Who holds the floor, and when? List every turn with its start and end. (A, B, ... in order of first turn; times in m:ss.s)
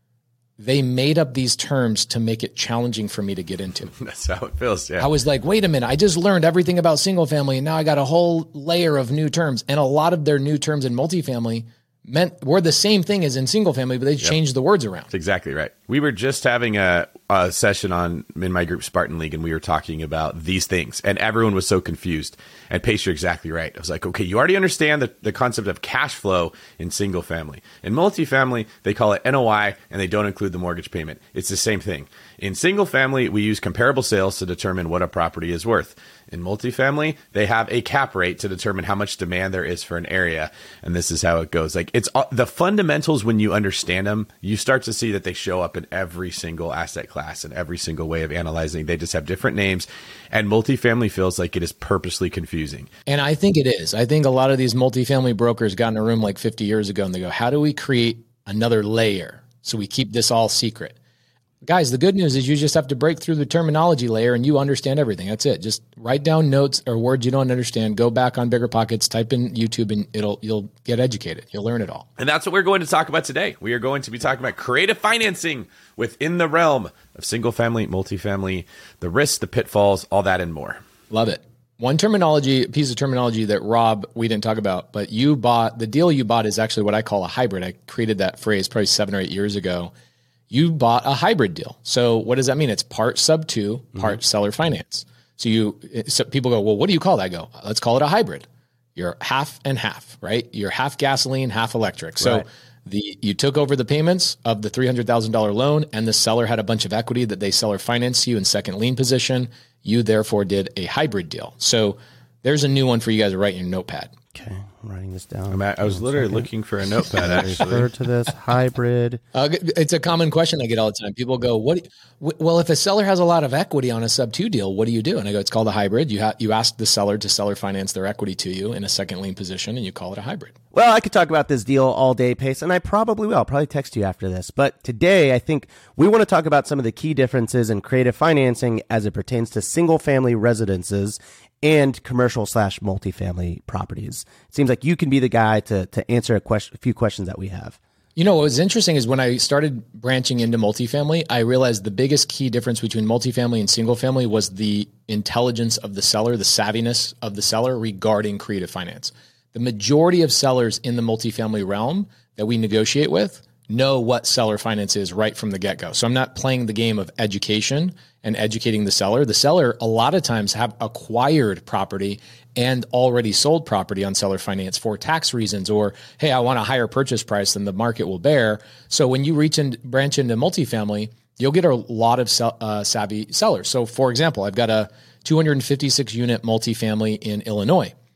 0:00.6-0:03.9 A
0:03.9-0:05.1 B
0:05.0-0:15.1 A
0:15.1-0:52.9 B
0:53.1-1:00.9 A
1:01.6-1:12.0 A
1:12.2-1:20.8 B
1:21.1-1:29.9 A
1:30.5-1:54.1 A
1:42.2-1:42.4 C
1:54.3-1:56.4 C
1:55.5-1:57.9 B
1:57.2-1:59.2 C
1:59.3-2:10.5 A
2:10.7-2:27.8 C
2:28.2-3:07.9 A